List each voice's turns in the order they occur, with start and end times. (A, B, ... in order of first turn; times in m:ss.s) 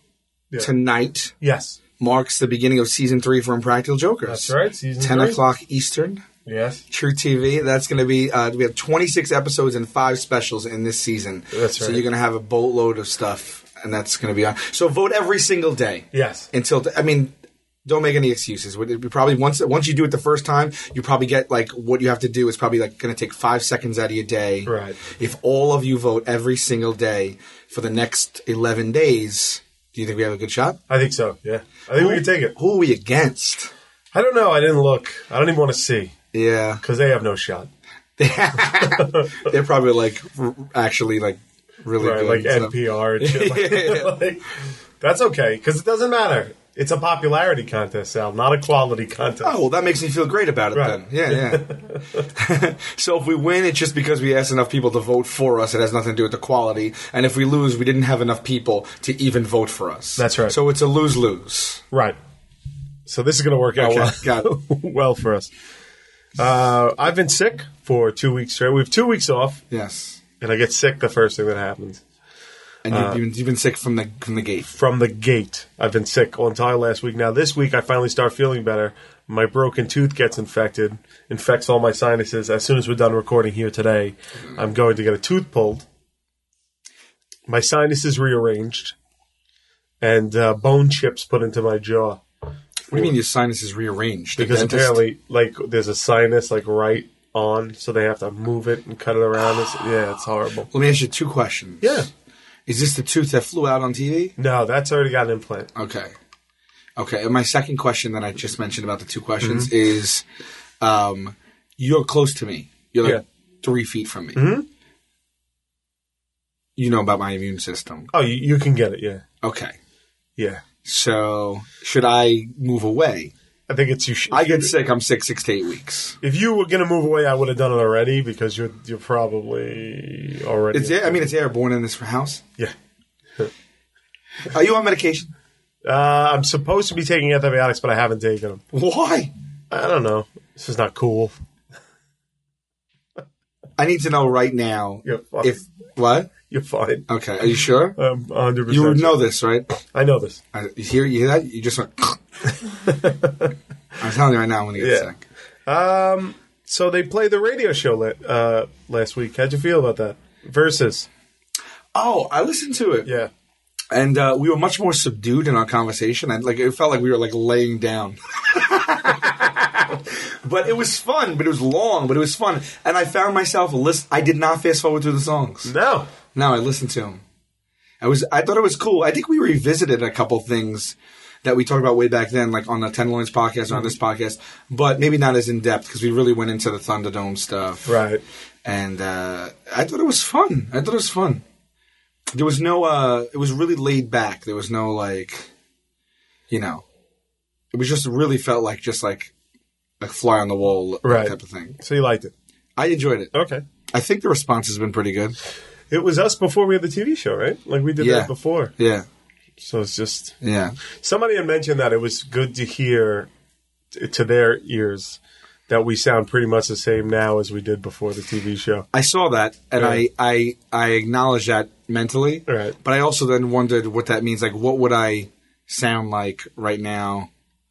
0:00.6-0:01.3 A
0:01.4-0:01.8 B
0:02.0-0:06.2 A
0:04.3-0:05.4 B
0:06.5-0:06.8 B
0:06.9-0:17.3 A
0:11.5-0:12.0 B
0:16.1-0:16.5 B
0:17.8-0:30.8 A
0:24.7-0:25.0 B
0:30.9-0:32.6 B
0:31.9-0:33.7 A
0:34.1-0:36.2 B
0:36.3-0:36.8 A
0:36.8-0:37.7 B
0:38.2-0:44.2 A
0:38.8-0:39.5 B
0:42.0-0:44.5 B
0:45.0-0:49.6 B
0:49.4-0:51.7 A
0:50.7-0:52.3 B
0:52.3-1:01.8 A
1:00.2-1:00.6 B
1:01.9-1:02.2 B
1:03.1-1:05.5 B
1:03.8-1:04.5 A
1:06.4-1:09.6 B
1:09.7-1:10.2 A
1:10.4-1:12.0 B
1:12.8-1:14.7 A
1:12.9-1:13.2 B
1:14.7-1:25.9 B
1:27.5-1:29.0 B
1:30.0-1:32.2 B
1:32.9-1:35.0 A
1:34.4-1:40.7 B
1:40.7-1:42.1 A
1:41.8-1:42.1 B
1:42.7-1:44.4 A
1:44.4-1:45.7 B
1:45.8-1:46.1 A
1:47.0-1:50.2 A
1:49.4-1:49.7 B
1:50.8-1:54.5 A
1:54.4-1:54.7 B
1:56.8-1:58.1 A
1:58.1-1:59.2 B
1:59.4-1:59.8 A
2:00.4-2:00.6 B
2:00.8-2:03.3 A
2:03.7-2:04.7 B
2:04.3-2:06.2 A
2:06.2-2:11.3 B
2:10.7-2:12.4 A
2:14.4-2:15.3 A
2:15.8-2:18.6 B
2:18.7-2:19.3 A
2:19.7-2:21.4 B
2:23.8-2:26.3 A
2:25.0-2:25.6 B
2:26.5-2:27.1 B
2:27.1-2:28.0 A
2:28.0-2:29.2 B
2:28.7-2:29.8 A
2:29.9-2:30.4 B
2:30.5-2:32.2 A
2:32.6-2:33.5 B
2:34.0-2:35.2 A
2:34.8-2:35.1 B
2:35.7-2:41.1 B
2:41.9-2:43.1 A
2:43.0-2:43.3 B
2:43.9-2:55.7 A
2:55.6-2:56.1 B
2:56.3-2:57.2 A
2:58.0-3:08.0 A
3:07.9-3:08.2 B
3:08.6-3:11.4 A
3:12.3-3:15.5 A
3:16.5-3:16.8 A
3:17.7-3:19.3 A
3:20.0-3:21.8 A
3:21.0-3:22.3 B
3:22.8-3:23.3 A
3:23.3-3:23.6 B
3:23.9-3:25.4 A
3:25.9-3:28.7 B
3:28.0-3:29.1 A
3:29.6-3:30.4 B
3:30.4-3:30.8 A
3:30.9-3:33.3 B
3:33.9-3:38.9 B
3:38.9-3:47.3 A
3:39.8-3:40.0 B
3:42.5-3:42.8 B